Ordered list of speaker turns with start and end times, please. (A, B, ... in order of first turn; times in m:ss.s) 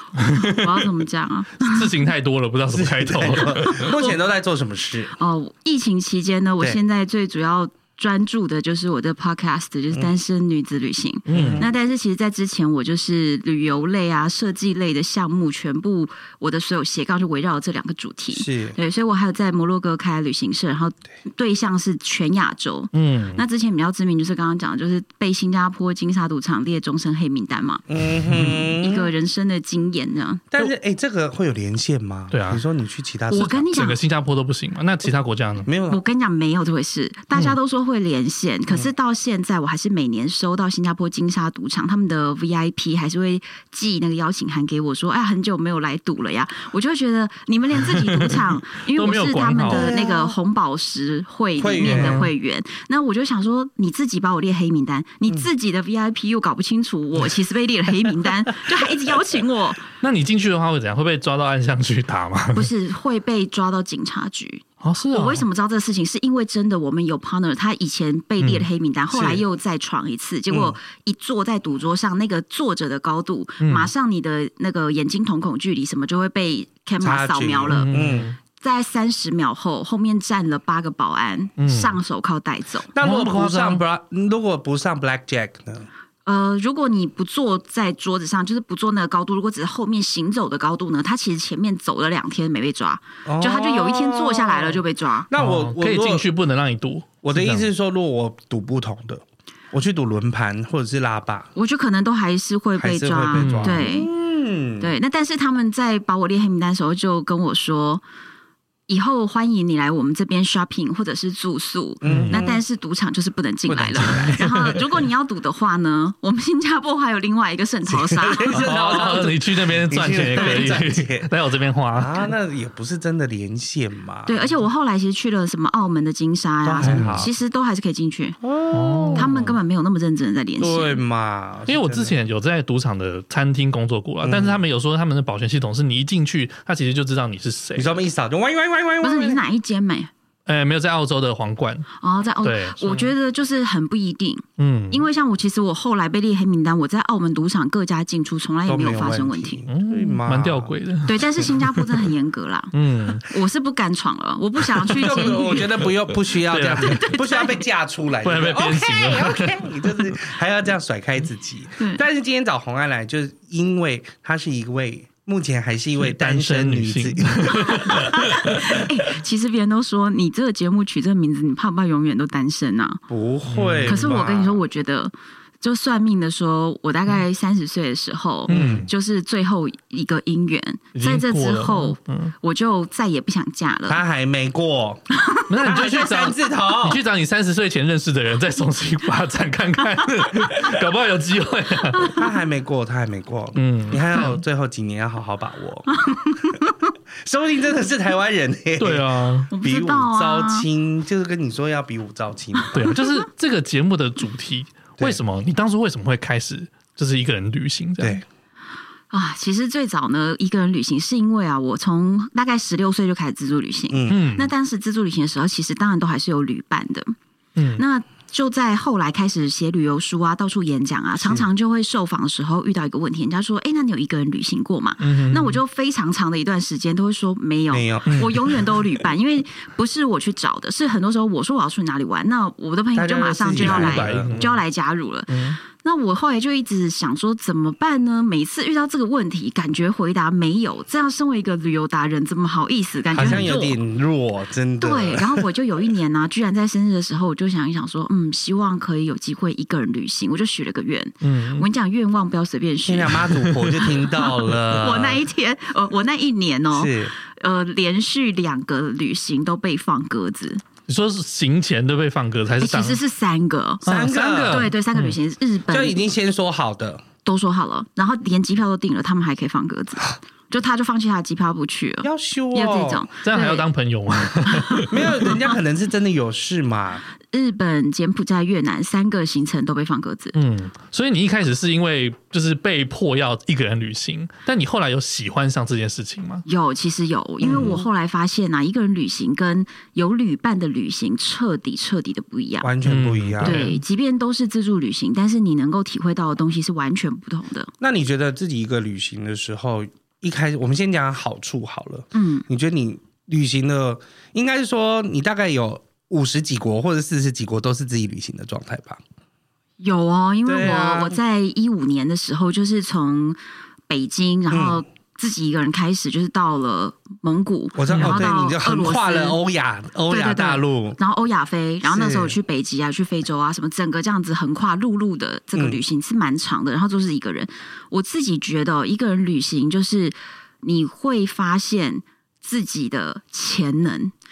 0:00.1-0:02.0 A
0:00.2-0:00.9 B
0:01.6-0:03.9 B
0:02.7-0:05.1 C
0:03.6-0:04.2 A
0:05.2-0:30.4 A
0:11.3-0:11.7 B
0:11.3-0:11.7 C
0:18.3-0:18.8 C
0:22.9-0:23.4 B
0:27.9-0:29.1 C
0:30.5-0:33.7 C
0:32.3-0:32.6 B
0:33.3-0:34.0 A
0:33.4-0:35.7 B
0:35.6-0:36.0 C
0:35.9-0:59.8 A
0:47.8-0:50.0 B
0:49.6-0:50.4 C
0:51.6-0:52.3 C
0:51.8-0:52.3 B
1:00.0-1:02.7 B
1:02.5-1:17.9 A
1:04.8-1:05.4 B
1:08.4-1:08.7 B
1:09.1-1:09.4 C
1:10.5-1:10.8 C
1:13.6-1:13.9 B
1:17.0-1:18.3 C
1:17.7-1:18.4 B
1:18.5-1:22.9 A
1:21.6-1:22.0 B
1:22.9-1:25.9 C
1:23.0-1:23.8 B
1:26.2-1:35.3 A
1:33.2-1:36.2 C
1:35.4-1:37.7 B
1:37.2-1:41.5 C
1:41.6-1:44.1 A
1:42.8-1:44.9 C
1:43.3-1:43.9 B
1:44.8-1:48.0 A
1:48.9-1:58.8 A
1:52.0-1:52.6 C
1:52.0-1:52.4 B
1:53.7-1:55.0 C
1:54.0-1:54.5 B
1:57.9-2:01.3 C
1:58.4-2:02.2 B
2:02.0-2:04.6 C
2:04.2-2:08.4 A
2:06.6-2:07.3 C
2:06.8-2:07.2 B
2:08.4-2:09.3 C
2:08.7-2:09.6 B
2:09.1-2:11.0 A
2:10.6-2:12.2 C
2:11.7-2:17.9 B
2:14.2-2:14.6 C
2:17.8-2:19.4 C
2:19.0-2:20.1 A
2:20.4-2:23.1 B
2:22.0-2:29.6 A
2:24.6-2:25.1 B
2:28.7-2:30.7 C
2:29.7-2:32.1 B
2:31.0-2:35.7 A
2:32.7-2:33.3 B
2:34.9-2:37.0 B
2:34.9-2:48.6 C
2:36.8-2:37.6 A
2:38.2-2:40.2 B
2:41.8-2:42.0 A
2:46.0-2:48.6 B
2:47.5-2:53.0 A
2:53.1-2:54.6 C
2:53.5-2:54.0 B
2:53.8-3:04.0 A
2:58.5-2:58.9 C
2:58.5-2:58.9 B
3:00.9-3:02.3 B
3:03.9-3:05.0 C
3:05.2-3:05.5 A
3:05.5-3:12.2 B
3:05.6-3:07.0 C
3:11.9-3:12.2 A
3:12.0-3:16.5 C
3:13.6-3:14.4 B
3:16.0-3:16.7 A
3:17.2-3:22.9 C
3:18.8-3:19.5 B
3:19.5-3:20.6 A
3:22.6-3:23.0 A
3:22.7-3:28.2 B
3:29.1-3:37.1 A
3:33.9-3:34.2 C
3:34.1-3:34.5 B
3:37.6-3:37.8 B
3:37.8-4:03.8 A
3:41.2-3:41.5 C
3:45.0-3:45.6 B
3:47.7-3:48.8 C
3:52.9-3:54.6 C
3:53.5-3:54.5 B
3:55.3-3:55.6 B
4:03.1-4:05.5 C
4:03.2-4:03.5 B
4:04.8-4:20.6 A
4:11.2-4:11.7 B
4:12.8-4:15.2 C
4:16.7-4:17.1 C
4:20.9-4:23.0 B
4:22.6-4:23.8 A
4:23.8-4:24.7 C
4:23.8-4:25.2 B
4:24.5-4:26.0 A
4:25.7-4:27.0 C
4:27.2-4:33.7 A
4:32.0-4:33.0 C
4:33.2-4:35.1 B
4:34.4-4:35.5 A
4:34.9-4:37.0 C
4:37.3-4:40.3 A
4:40.3-4:46.4 B
4:46.4-4:52.7 A
4:47.4-4:47.8 C
4:52.6-4:53.7 C
4:52.8-4:53.8 B
4:53.4-4:57.7 A
4:57.8-5:09.0 C
5:02.1-5:02.4 A
5:09.8-5:13.4 A
5:10.4-5:11.2 C
5:13.9-5:19.4 A
5:14.5-5:14.8 C
5:17.7-5:21.0 C
5:17.9-5:18.2 B
5:20.1-5:34.1 A
5:21.8-5:22.4 C
5:25.5-5:25.8 C